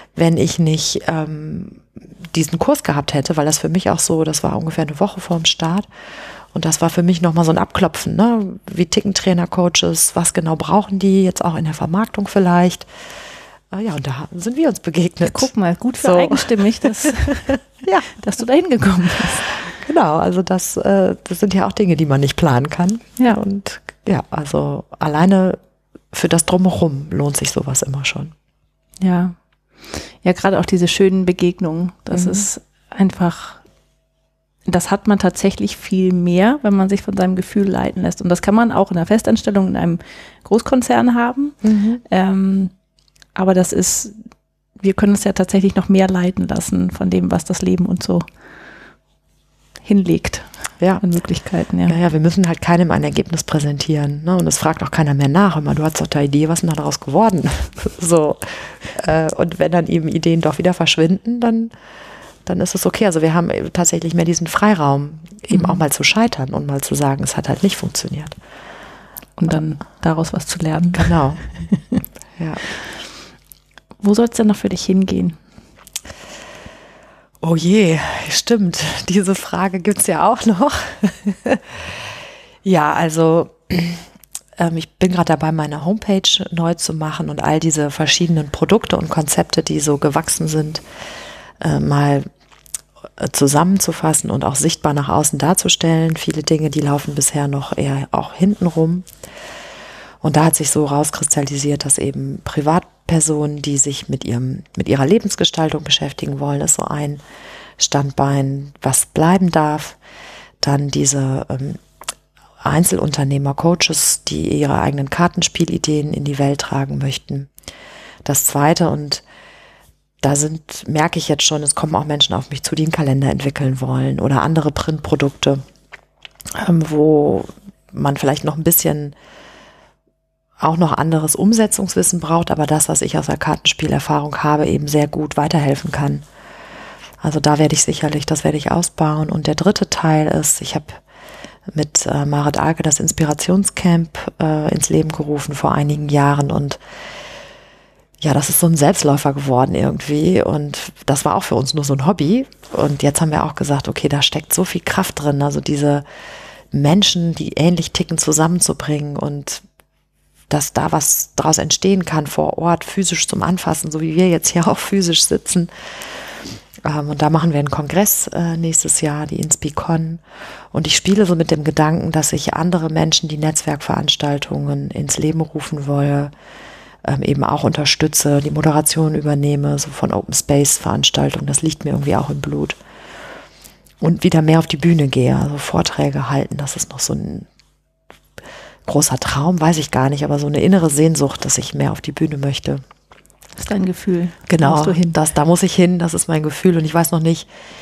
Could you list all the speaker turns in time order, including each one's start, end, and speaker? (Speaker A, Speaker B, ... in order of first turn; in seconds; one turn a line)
Speaker A: 0.1-5.9
Speaker A: 6.5-12.9
Speaker A: 13.7-18.1
Speaker B: 15.2-19.5
Speaker A: 19.5-25.6
Speaker A: 26.1-28.3
Speaker B: 29.0-33.6
Speaker A: 32.1-32.5
Speaker B: 34.7-42.7
Speaker A: 41.6-42.0
Speaker B: 43.4-44.2
Speaker B: 44.8-48.3
Speaker B: 49.8-52.0
Speaker A: 51.9-61.7
Speaker A: 62.5-68.4
Speaker B: 65.5-65.8
Speaker B: 69.4-72.0
Speaker A: 71.0-71.4
Speaker A: 72.4-72.6
Speaker B: 74.0-75.4
Speaker A: 77.4-84.0
Speaker A: 84.6-90.8
Speaker A: 91.6-92.3
Speaker A: 93.2-99.1
Speaker A: 100.2-107.2
Speaker A: 107.8-110.0
Speaker A: 110.6-111.8
Speaker A: 112.6-117.5
Speaker A: 118.2-119.2
Speaker A: 120.2-125.6
Speaker A: 126.6-129.2
Speaker A: 130.6-136.2
Speaker A: 137.2-141.0
Speaker A: 141.7-146.8
Speaker A: 148.2-156.1
Speaker A: 156.7-159.6
Speaker A: 160.5-165.7
Speaker A: 166.8-176.3
Speaker A: 177.0-182.8
Speaker A: 184.0-187.5
Speaker A: 188.8-192.8
Speaker B: 193.6-195.2
Speaker A: 194.5-197.5